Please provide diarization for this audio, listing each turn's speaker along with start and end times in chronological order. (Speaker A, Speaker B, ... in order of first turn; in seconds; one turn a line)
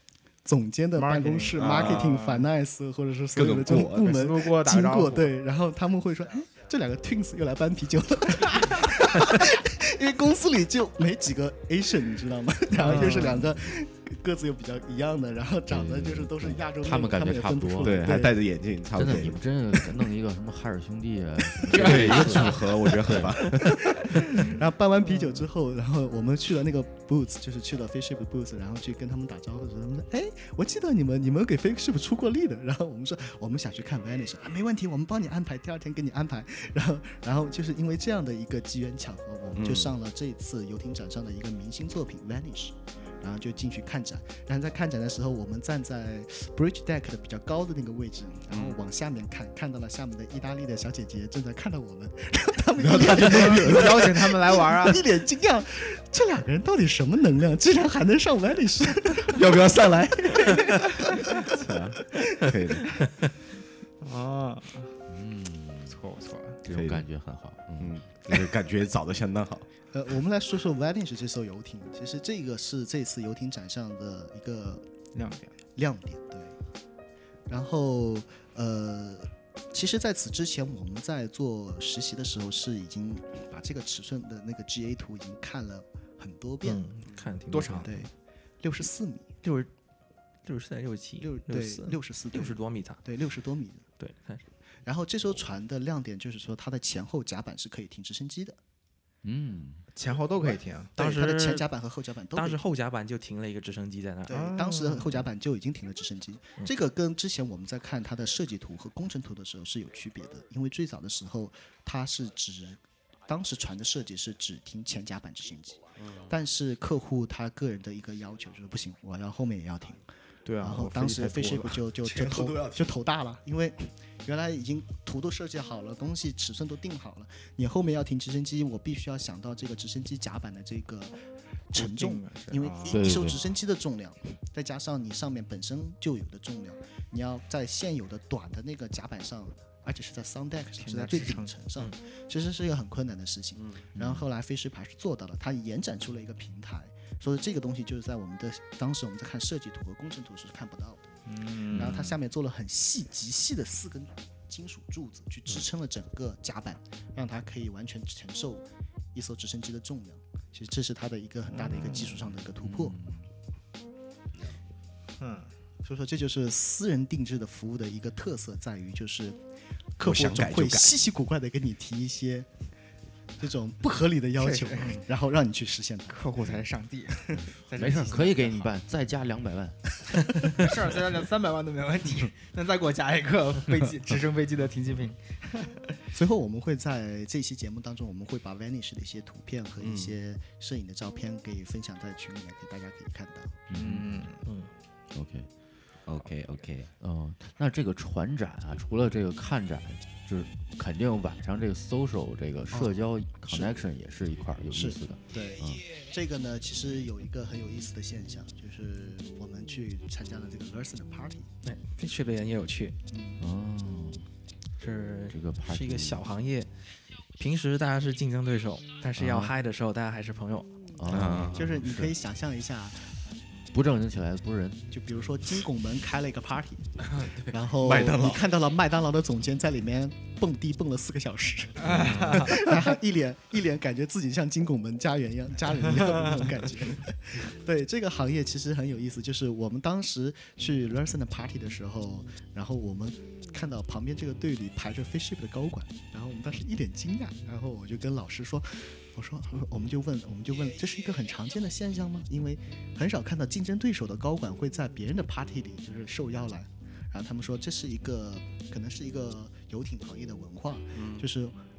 Speaker A: 0.4-18.4
Speaker B: 0.9-2.5
Speaker C: 1.6-2.1
Speaker C: 3.3-4.2
Speaker B: 4.0-5.3
Speaker D: 12.8-13.8
Speaker B: 12.9-13.2
Speaker D: 15.7-18.1
Speaker C: 17.8-19.4
Speaker D: 18.9-23.7
Speaker C: 21.7-23.9
Speaker A: 23.6-61.5
Speaker C: 39.5-39.9
Speaker C: 48.5-48.8
Speaker C: 52.8-54.4
Speaker B: 53.0-55.0
Speaker C: 59.2-63.1
Speaker B: 64.0-64.9
Speaker D: 65.1-66.0
Speaker B: 65.9-66.6
Speaker D: 66.6-68.6
Speaker C: 66.7-67.1
Speaker C: 67.7-69.7
Speaker A: 69.9-74.9
Speaker B: 75.1-75.5
Speaker A: 75.8-76.6
Speaker A: 77.5-86.9
Speaker E: 86.6-88.0
Speaker B: 87.5-88.0
Speaker A: 87.7-88.1
Speaker A: 88.6-89.3
Speaker E: 89.4-89.7
Speaker E: 90.4-93.0
Speaker A: 91.2-93.8
Speaker E: 94.0-94.4
Speaker A: 94.8-98.6
Speaker D: 99.2-99.8
Speaker B: 99.9-100.9
Speaker E: 101.0-101.7
Speaker A: 101.0-102.6
Speaker E: 102.3-104.9
Speaker A: 104.3-120.0
Speaker B: 104.5-105.0
Speaker C: 116.0-116.3
Speaker B: 120.5-121.8
Speaker A: 120.6-131.2
Speaker C: 122.0-122.9
Speaker A: 131.7-151.1
Speaker B: 131.7-133.2
Speaker D: 132.9-133.4
Speaker B: 140.8-141.5
Speaker D: 143.9-144.2
Speaker B: 151.3-152.0
Speaker A: 151.7-163.0
Speaker D: 151.7-152.1
Speaker D: 161.9-163.3
Speaker B: 165.2-165.5
Speaker A: 165.8-169.4
Speaker A: 170.0-172.5
Speaker C: 170.0-170.9
Speaker A: 173.4-176.3
Speaker B: 174.4-175.0
Speaker B: 176.1-178.7
Speaker D: 177.7-181.0
Speaker B: 180.4-185.8
Speaker A: 186.1-193.6
Speaker C: 189.8-190.1
Speaker D: 193.7-194.3
Speaker B: 193.7-194.4
Speaker E: 194.4-194.7
Speaker D: 195.1-195.5
Speaker C: 196.1-196.9
Speaker D: 197.0-205.8
Speaker A: 202.7-203.8
Speaker A: 204.7-211.5
Speaker E: 211.6-213.0
Speaker A: 213.1-213.4
Speaker D: 213.4-214.3
Speaker E: 214.8-216.7
Speaker D: 215.3-216.3
Speaker E: 217.4-220.7
Speaker D: 219.2-219.5
Speaker D: 221.0-222.1
Speaker C: 221.1-221.7
Speaker A: 221.5-223.2
Speaker D: 223.7-224.9
Speaker A: 224.9-261.6
Speaker C: 227.8-228.4
Speaker B: 231.8-232.6
Speaker D: 231.9-232.5
Speaker C: 260.9-261.2